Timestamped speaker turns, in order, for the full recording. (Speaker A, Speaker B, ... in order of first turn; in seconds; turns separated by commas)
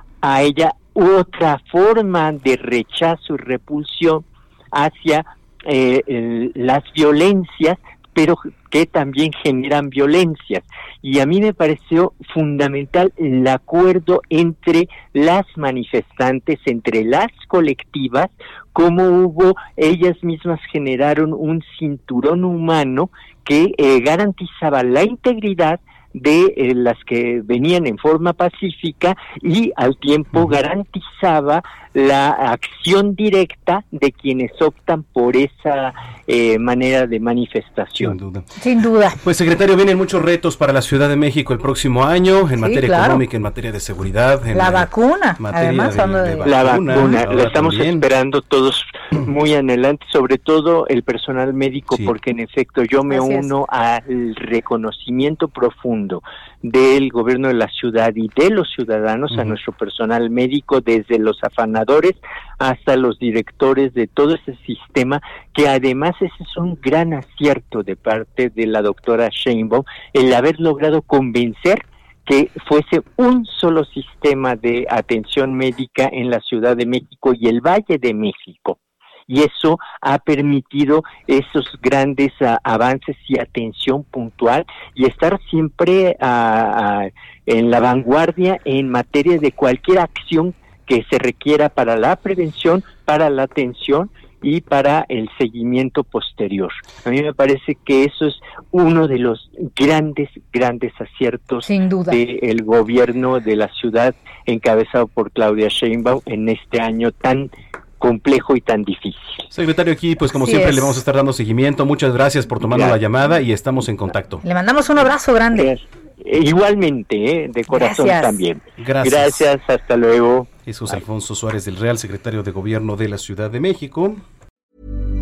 Speaker A: 0.2-38.2, Speaker B: 38.0-38.5, Speaker C: 38.6-39.2, Speaker B: 39.2-48.0, Speaker C: 42.6-43.2, Speaker C: 44.5-47.2, Speaker A: 46.4-109.5, Speaker C: 53.1-53.5, Speaker C: 101.6-102.2, Speaker B: 109.5-114.4, Speaker C: 110.3-111.0, Speaker A: 112.6-113.0, Speaker C: 114.4-115.7, Speaker A: 115.5-120.5, Speaker C: 117.7-118.4, Speaker B: 118.8-119.5, Speaker B: 120.7-124.2